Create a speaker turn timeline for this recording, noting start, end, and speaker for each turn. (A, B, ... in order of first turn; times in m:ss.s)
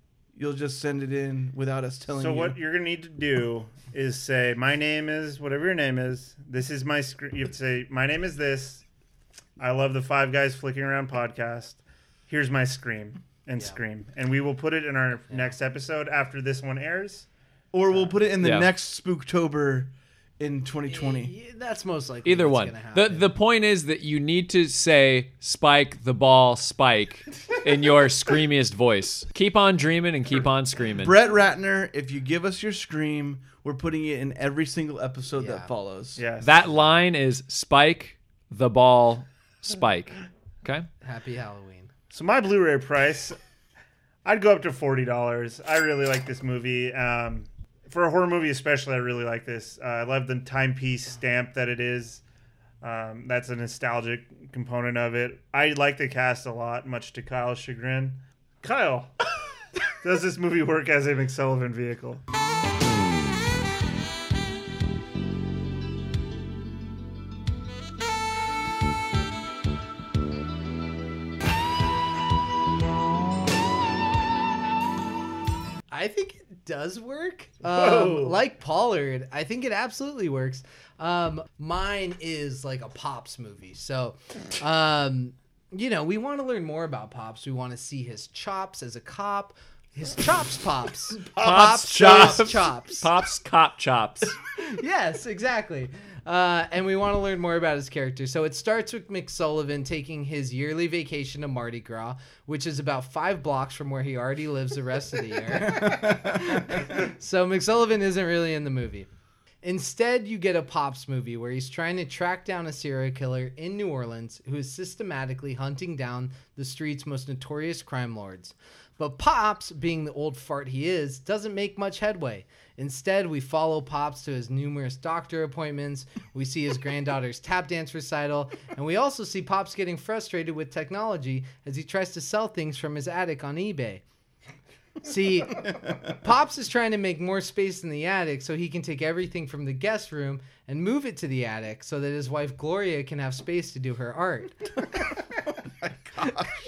0:00.3-0:02.6 A
0:02.2-0:08.8 B
0:09.6-0:17.3 B
0:17.7-0:21.3 A
0:18.4-0:18.7 C
0:20.9-0:23.3 D
0:22.2-0:31.2 C
0:31.0-0:36.2 A
0:35.4-0:35.7 D
0:36.2-0:36.6 B
0:36.4-0:40.9 C
0:41.0-0:41.9 D
0:42.1-0:43.4 B
0:44.2-0:52.2 B
0:52.8-0:59.1 B
1:00.0-1:02.2 B
1:15.9-1:33.1 D
1:17.6-1:18.4 B
1:31.3-1:34.4 C
1:31.9-1:32.5 A
1:34.6-1:49.1 D
1:45.6-1:46.5 A
1:49.6-2:14.0 D
2:15.0-2:24.7 D
2:26.1-2:26.4 A